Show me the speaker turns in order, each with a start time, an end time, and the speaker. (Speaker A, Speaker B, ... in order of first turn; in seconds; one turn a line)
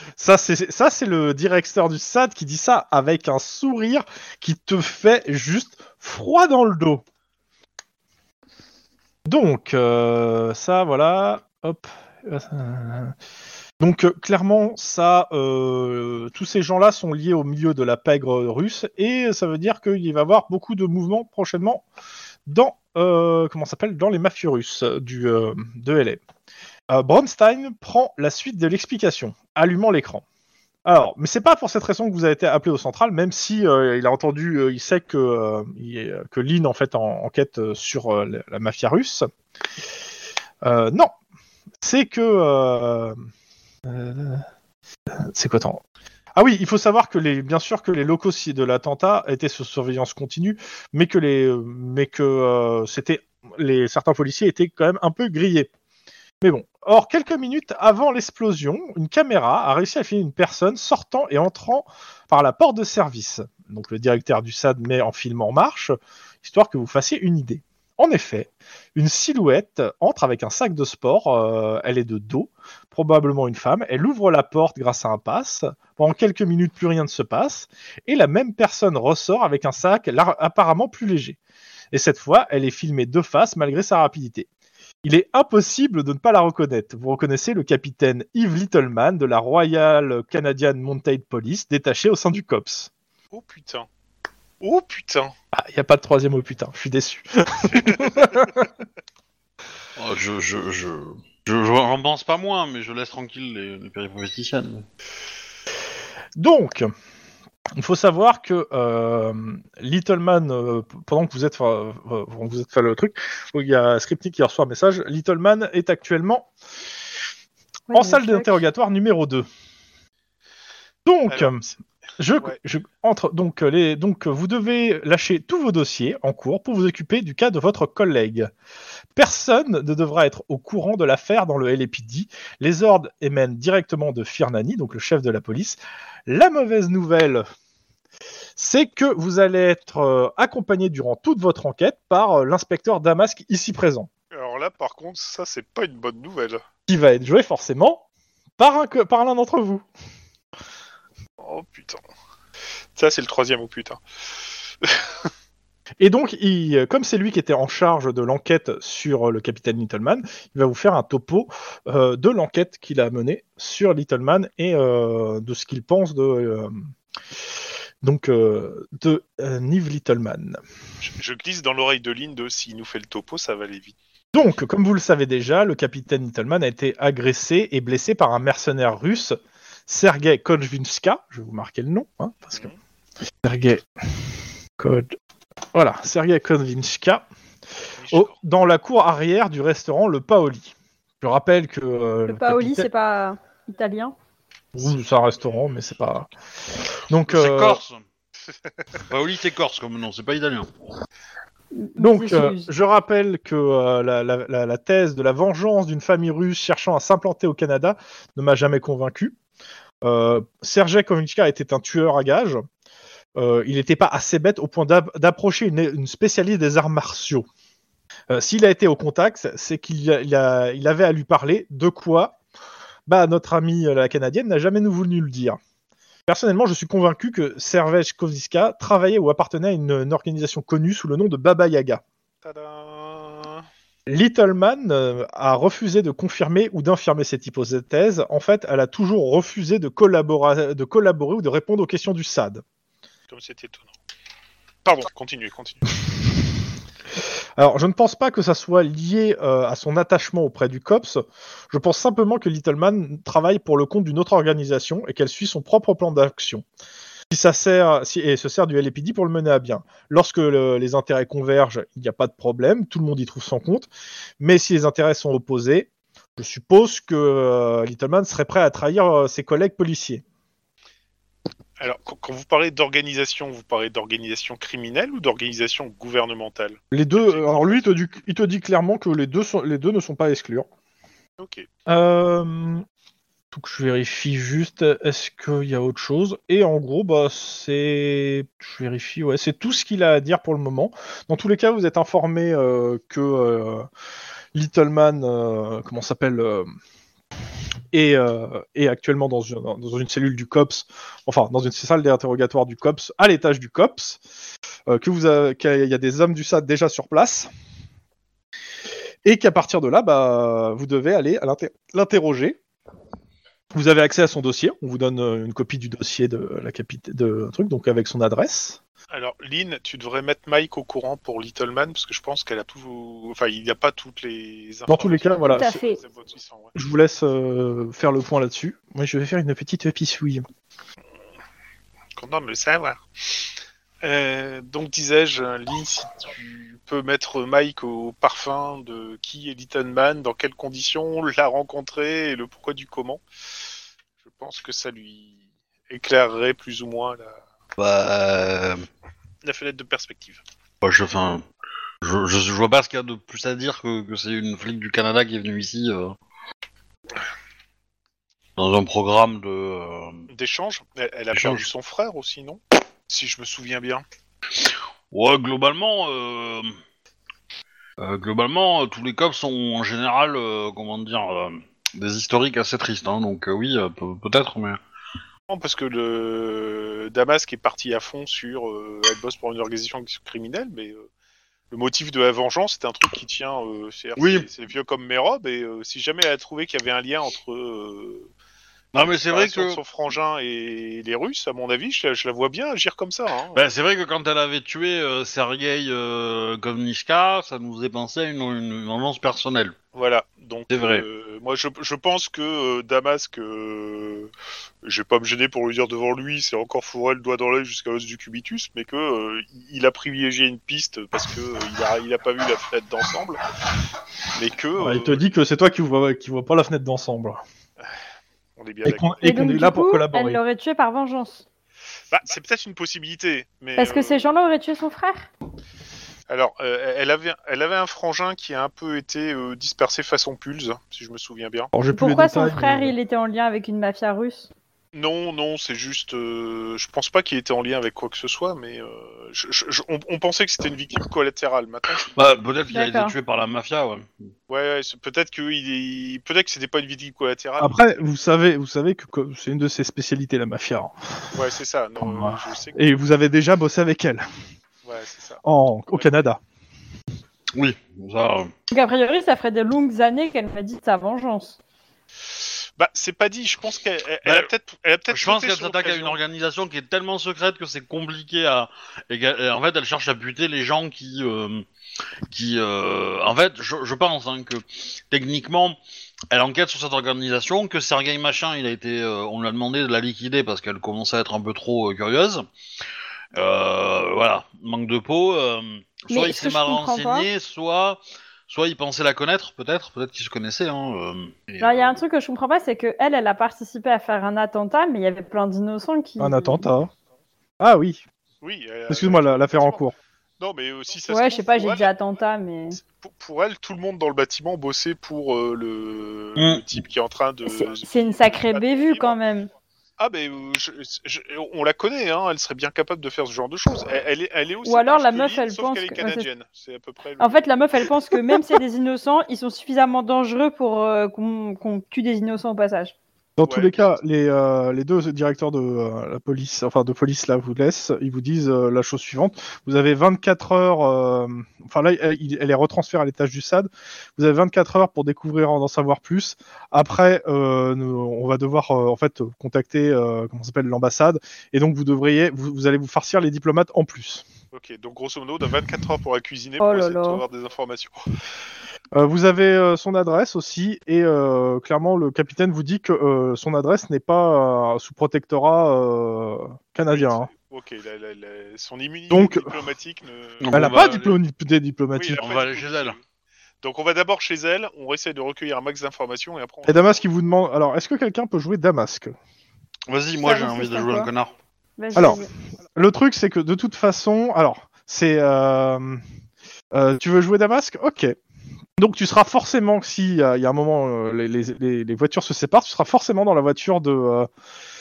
Speaker A: 0.2-7.0
Speaker A: 9.2-13.1
Speaker A: 13.8-21.8
Speaker A: 22.5-26.2
Speaker A: 26.9-30.2
Speaker A: 30.8-39.3
Speaker A: 40.6-41.1
Speaker A: 41.8-43.2
Speaker A: 43.9-44.4
Speaker A: 45.1-45.8
Speaker A: 46.3-55.7
Speaker A: 56.4-81.4
Speaker A: 81.9-84.5
Speaker A: 85.0-92.9
Speaker B: 93.3-93.9
Speaker B: 94.6-95.3
Speaker A: 95.5-98.7
Speaker C: 100.0-104.8
Speaker A: 106.4-106.9
Speaker A: 107.8-116.5
Speaker D: 117.9-118.6
Speaker A: 117.9-119.5
Speaker A: 121.0-121.6
Speaker B: 121.3-121.7
Speaker A: 122.2-128.5
Speaker A: 129.2-137.4
Speaker A: 138.6-144.1
Speaker B: 144.3-146.6
Speaker A: 146.9-148.0
Speaker A: 148.6-149.8
Speaker B: 151.4-152.0
Speaker B: 152.9-154.0
Speaker B: 154.8-155.3
Speaker A: 156.0-166.8
Speaker A: 168.0-170.6
Speaker B: 171.0-173.9
Speaker A: 174.3-179.3
Speaker A: 179.9-182.7
Speaker A: 183.4-183.8
Speaker A: 184.8-185.2
Speaker A: 185.7-187.2
Speaker B: 188.0-188.3
Speaker A: 188.1-192.9
Speaker D: 192.3-194.1
Speaker A: 194.7-196.3
Speaker A: 197.1-197.8
Speaker C: 197.3-198.1
Speaker C: 199.0-200.7
Speaker D: 201.7-202.7
Speaker A: 202.0-209.3
Speaker A: 210.0-212.6
Speaker A: 213.3-217.4
Speaker A: 218.3-222.4
Speaker A: 223.1-225.6
Speaker A: 226.3-232.0
Speaker B: 232.4-233.6
Speaker A: 234.1-242.6
Speaker B: 243.3-243.9
Speaker B: 244.8-245.9
Speaker A: 247.6-256.6
Speaker A: 257.3-263.9
Speaker A: 264.4-270.2
Speaker B: 271.8-277.9
Speaker A: 276.9-280.7
Speaker B: 281.4-281.7
Speaker A: 281.9-282.8
Speaker A: 283.5-293.9
Speaker A: 294.5-296.7
Speaker A: 297.9-304.2
Speaker A: 304.9-307.5
Speaker A: 309.2-312.6
Speaker A: 313.7-318.8
Speaker B: 319.1-326.7
Speaker A: 324.9-325.8
Speaker D: 325.5-326.0
Speaker A: 326.7-330.4
Speaker B: 332.1-333.5
Speaker B: 334.0-343.2
Speaker B: 344.2-345.4
Speaker B: 345.9-347.4
Speaker C: 347.8-348.9
Speaker B: 349.4-350.4
Speaker C: 350.8-351.4
Speaker C: 352.0-356.1
Speaker C: 358.6-360.2
Speaker B: 360.3-364.0
Speaker C: 361.3-361.6
Speaker C: 364.6-366.7
Speaker C: 368.0-374.8
Speaker B: 375.5-381.1
Speaker B: 381.7-388.3
Speaker C: 384.2-384.5
Speaker C: 388.9-389.8
Speaker B: 388.9-393.6
Speaker C: 393.5-399.8
Speaker B: 399.9-404.3
Speaker C: 400.7-401.0
Speaker B: 404.8-413.4
Speaker B: 414.3-415.2
Speaker A: 414.8-417.4
Speaker B: 418.6-419.2
Speaker A: 418.8-420.4
Speaker D: 419.2-421.4
Speaker B: 422.1-424.3
Speaker D: 423.8-425.3
Speaker B: 426.3-431.7
Speaker A: 431.7-432.9
Speaker D: 431.9-434.5
Speaker B: 434.9-442.2
Speaker C: 442.1-444.3
Speaker D: 442.7-443.1
Speaker B: 444.5-448.0
Speaker A: 447.6-451.3
Speaker B: 451.3-452.9
Speaker A: 452.0-454.2
Speaker B: 454.8-456.1
Speaker A: 455.4-456.4
Speaker C: 457.5-458.5
Speaker D: 458.7-461.6
Speaker B: 462.8-466.2
Speaker C: 464.2-464.5
Speaker C: 465.1-471.6
Speaker C: 472.3-475.8
Speaker C: 476.3-482.4
Speaker C: 483.3-492.0
Speaker D: 486.1-487.3
Speaker D: 491.6-496.6
Speaker A: 496.2-496.9
Speaker A: 497.6-498.0
Speaker B: 498.4-499.8
Speaker A: 498.9-499.9
Speaker B: 500.4-501.9
Speaker D: 501.1-502.8
Speaker B: 502.8-509.2
Speaker C: 506.4-506.6
Speaker D: 507.4-509.5
Speaker B: 510.0-517.5
Speaker D: 514.6-516.2
Speaker D: 517.2-522.9
Speaker A: 523.4-544.2
Speaker B: 523.5-524.0
Speaker B: 544.5-548.0
Speaker D: 546.6-547.2
Speaker A: 548.9-557.3
Speaker B: 556.9-560.5
Speaker A: 559.1-559.5
Speaker C: 560.4-561.2
Speaker A: 560.5-562.2
Speaker B: 562.0-563.0
Speaker C: 562.1-563.0
Speaker B: 563.6-567.1
Speaker A: 566.6-569.1
Speaker C: 569.9-571.3
Speaker D: 570.2-571.1
Speaker D: 571.8-572.3
Speaker A: 571.9-572.2
Speaker A: 572.8-576.0
Speaker A: 576.7-578.2
Speaker A: 578.8-584.3